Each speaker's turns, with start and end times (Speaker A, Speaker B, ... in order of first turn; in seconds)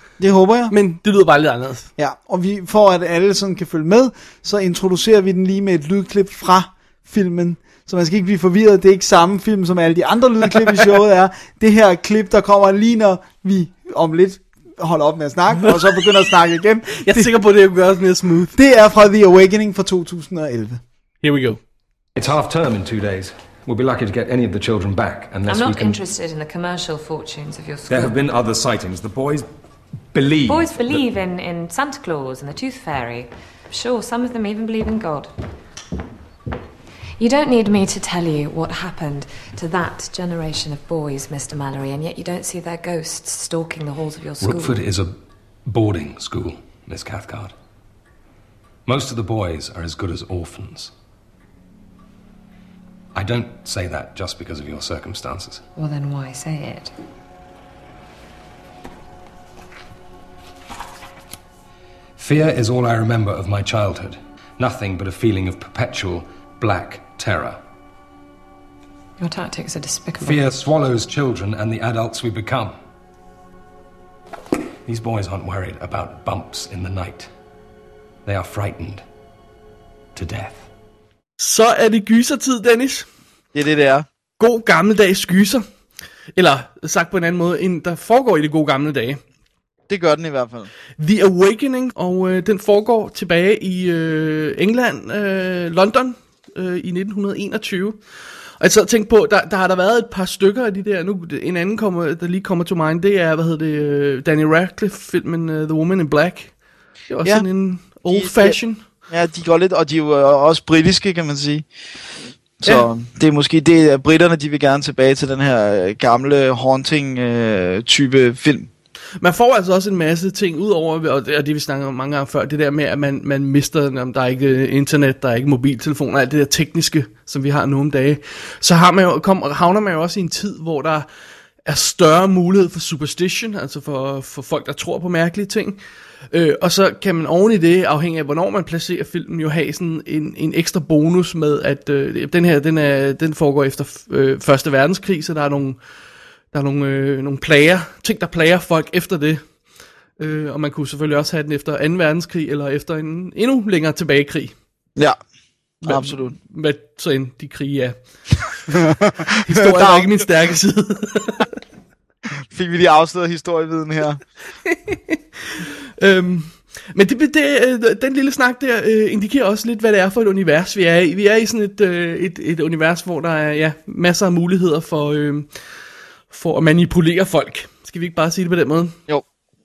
Speaker A: 0.2-0.7, 2.0-17.3, 18.5-20.8
Speaker B: 0.7-1.9, 15.6-16.0, 17.0-18.6, 21.2-21.6, 81.4-83.0, 84.4-85.6, 86.3-89.2, 91.0-98.0, 98.6-106.5, 107.1-108.8, 119.2-131.1, 131.7-135.8, 136.3-145.8, 146.5-149.4, 150.2-154.5, 155.8-157.9, 159.4-161.5, 164.7-175.5, 176.3-179.0
Speaker C: 22.1-26.0, 27.9-29.4, 30.1-31.0, 44.4-45.1, 45.7-47.5, 48.9-50.9, 53.1-55.6, 62.2-67.6, 70.2-72.8, 74.8-77.3, 78.2-79.0, 80.1-80.7
Speaker D: 25.4-28.2, 30.4-35.3, 37.2-44.8, 55.8-56.9, 69.2-70.4
Speaker E: 83.5-84.0, 89.9-90.7, 108.1-108.6, 109.1-111.6, 112.6-118.7, 155.8-156.3, 158.7-160.2, 162.5-164.2